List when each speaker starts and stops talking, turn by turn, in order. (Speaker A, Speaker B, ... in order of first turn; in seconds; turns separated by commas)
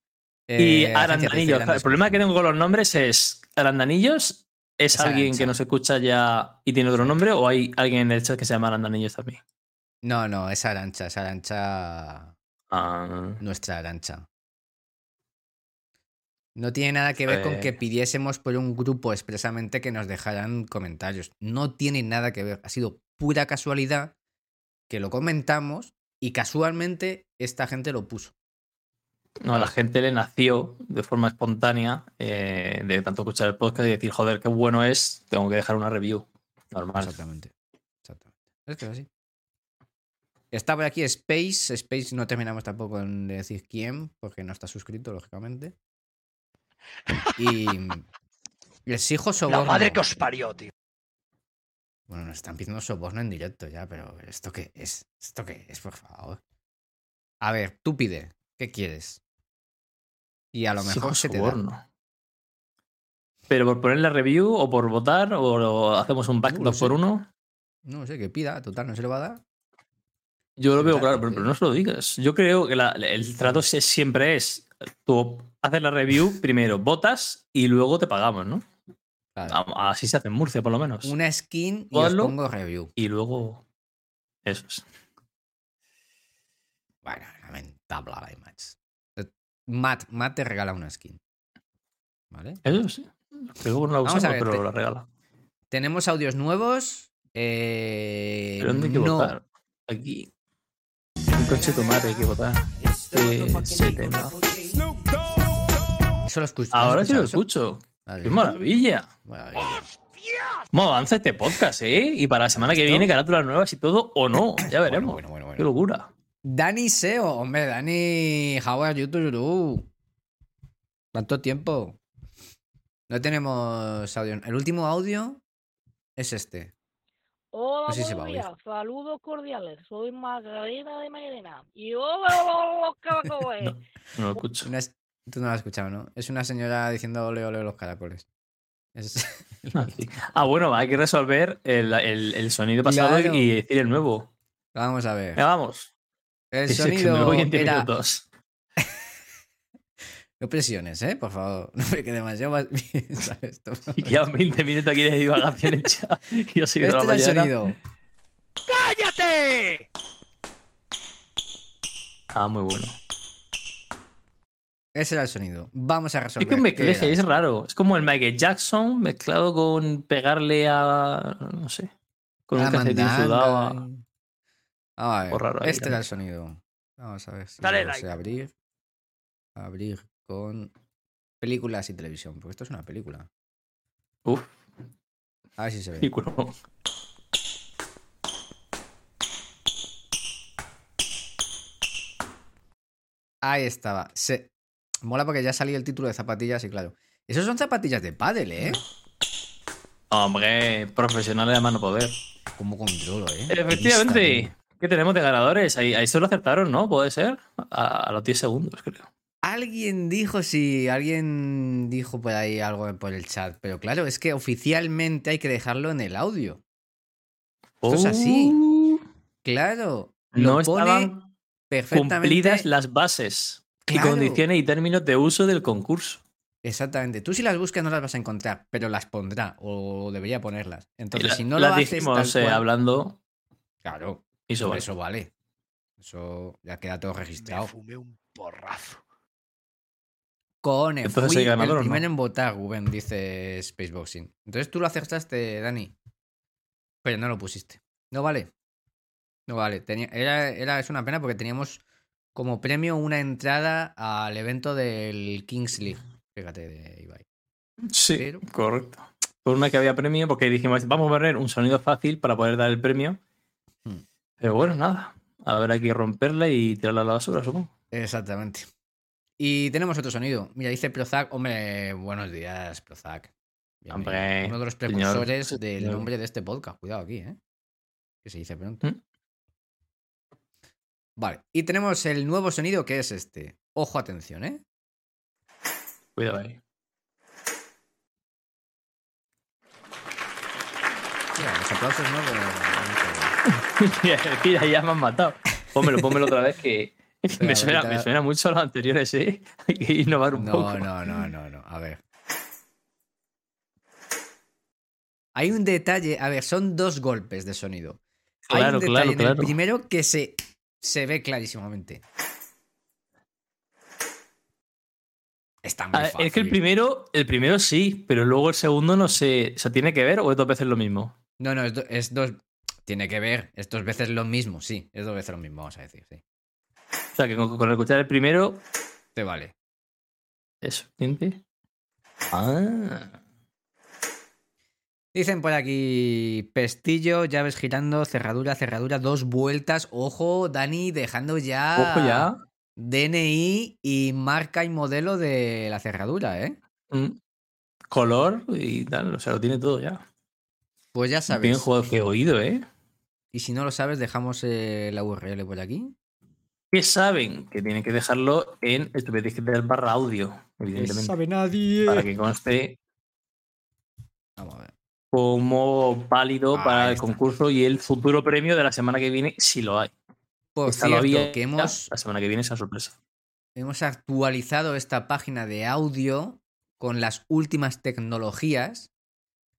Speaker A: 0.5-2.2, Speaker B: 0.6-9.4, Speaker A: 4.9-5.5, Speaker A: 10.0-12.3, Speaker B: 12.7-13.4, Speaker A: 13.4-14.2, Speaker A: 16.5-24.1, Speaker B: 17.3-17.7, Speaker A: 24.9-28.3, Speaker B: 29.4-37.1, Speaker A: 37.0-37.5, Speaker A: 38.0-39.1, Speaker A: 40.5-45.7, Speaker A: 47.4-48.0, Speaker A: 48.9-50.2, Speaker C: 49.5-50.7, Speaker A: 52.1-56.4, Speaker A: 57.4-59.2, Speaker A: 60.5-61.6, Speaker B: 60.8-61.8, Speaker B: 63.5-67.3, Speaker A: 66.5-67.0, Speaker A: 67.8-69.4, Speaker B: 70.6-78.6, Speaker A: 70.7-71.5, Speaker B: 79.5-81.1, Speaker A: 81.0-82.9, Speaker B: 81.9-82.3, Speaker B: 83.0-83.6, Speaker B: 84.4-84.8, Speaker A: 87.0-91.2, Speaker A: 92.3-92.6, Speaker B: 92.6-95.0, Speaker A: 94.0-94.6, Speaker A: 95.7-99.3, Speaker B: 98.6-100.3, Speaker B: 101.3-104.3, Speaker A: 106.2-107.4, Speaker B: 106.7-109.1, Speaker A: 108.0-108.6, Speaker A: 109.2-109.9, Speaker C: 110.2-110.6, Speaker B: 110.7-116.1, Speaker A: 112.5-113.1, Speaker A: 114.6-115.7, Speaker A: 116.4-119.9, Speaker A: 121.1-122.0, Speaker A: 123.1-125.4, Speaker A: 126.2-126.7, Speaker D: 127.5-133.8, Speaker A: 127.8-128.5, Speaker B: 133.6-134.7, Speaker A: 134.6-138.2, Speaker A: 138.9-140.1, Speaker B: 139.7-144.3, Speaker A: 142.8-143.5, Speaker A: 144.7-145.4, Speaker B: 145.3-145.9, Speaker A: 146.5-147.9, Speaker B: 146.7-148.2, Speaker A: 150.4-154.2, Speaker B: 153.9-157.5, Speaker A: 156.8-157.8, Speaker C: 158.7-159.8, Speaker B: 162.3-162.9, Speaker A: 164.9-167.3, Speaker B: 166.4-171.9, Speaker B: 172.5-173.8, Speaker A: 172.5-174.0, Speaker A: 175.0-178.5, Speaker B: 175.3-176.0, Speaker C: 177.6-178.1, Speaker A: 179.6-180.7, Speaker A: 181.4-183.3, Speaker B: 184.2-184.5, Speaker A: 185.6-186.1, Speaker B: 186.0-186.5, Speaker A: 193.4-194.5, Speaker A: 195.0-198.8, Speaker B: 200.1-202.1, Speaker A: 202.6-204.5, Speaker B: 203.5-209.1, Speaker A: 209.4-216.6, Speaker B: 217.8-219.0, Speaker A: 217.9-218.6, Speaker A: 219.4-221.1, Speaker B: 220.3-221.3, Speaker A: 221.7-222.7, Speaker B: 221.9-226.2, Speaker A: 223.8-224.4, Speaker A: 226.6-232.7, Speaker B: 231.1-233.2, Speaker A: 233.8-235.3, Speaker B: 234.5-234.8, Speaker A: 236.0-237.7, Speaker C: 237.4-239.0, Speaker A: 240.6-245.9, Speaker B: 241.0-242.0, Speaker A: 247.0-248.5, Speaker A: 249.5-251.8, Speaker A: 252.3-257.2, Speaker B: 257.9-263.2, Speaker A: 258.1-258.4, Speaker B: 264.4-267.7, Speaker A: 267.9-268.7, Speaker A: 269.4-277.4, Speaker B: 273.9-276.1, Speaker A: 278.2-278.9, Speaker A: 281.2-284.6, Speaker B: 286.2-286.6, Speaker A: 291.3-293.4, Speaker B: 293.5-300.9, Speaker A: 295.8-296.1, Speaker A: 297.4-298.1, Speaker A: 300.3-302.0, Speaker A: 305.3-312.0, Speaker B: 308.5-309.5, Speaker A: 315.6-316.6, Speaker B: 315.9-321.1, Speaker A: 321.4-326.2, Speaker B: 327.1-328.6, Speaker A: 329.1-329.5, Speaker B: 330.6-331.4, Speaker B: 332.3-333.1, Speaker A: 335.1-346.6, Speaker B: 341.8-342.4, Speaker B: 346.9-347.2, Speaker B: 347.9-350.0, Speaker A: 350.9-351.7, Speaker B: 351.3-352.6, Speaker A: 353.3-355.9, Speaker B: 356.7-361.1, Speaker A: 360.7-362.1, Speaker B: 361.9-362.8, Speaker A: 364.4-364.7, Speaker B: 365.1-369.9, Speaker A: 366.5-367.2, Speaker A: 370.5-371.9, Speaker B: 370.6-372.9, Speaker A: 373.6-378.9